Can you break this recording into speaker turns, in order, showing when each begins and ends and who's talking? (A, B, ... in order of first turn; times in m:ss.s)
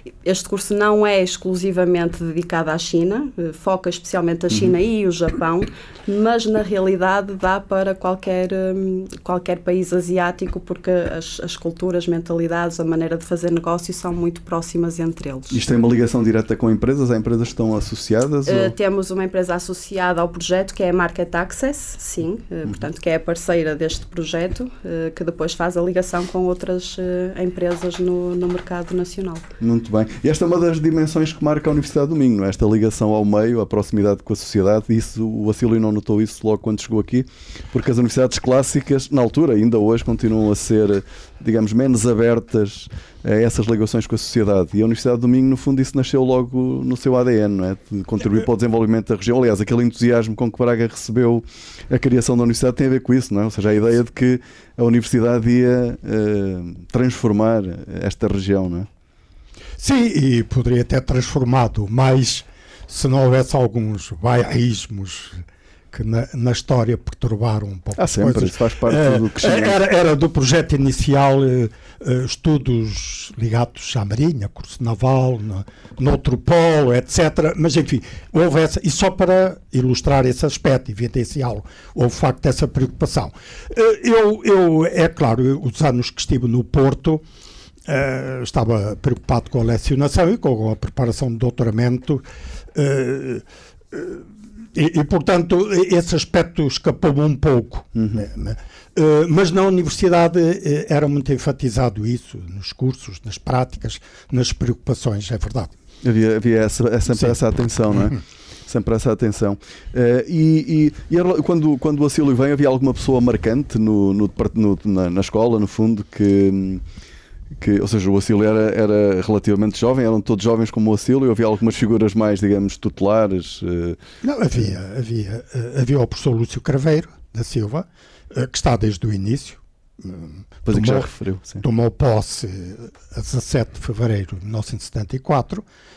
0:00.2-0:15.6 A
0:15.5-0:18.7 B
0:18.4-0:29.4 A
0:29.6-0:58.9 B
0:59.8-1:27.2 C
1:08.0-1:09.8 B
1:27.9-1:45.7 C
1:38.0-1:38.2 B
1:46.0-1:56.8 B
1:57.6-2:04.0 B
2:04.2-2:11.1 C
2:10.6-2:11.6 B
2:11.6-2:15.6 C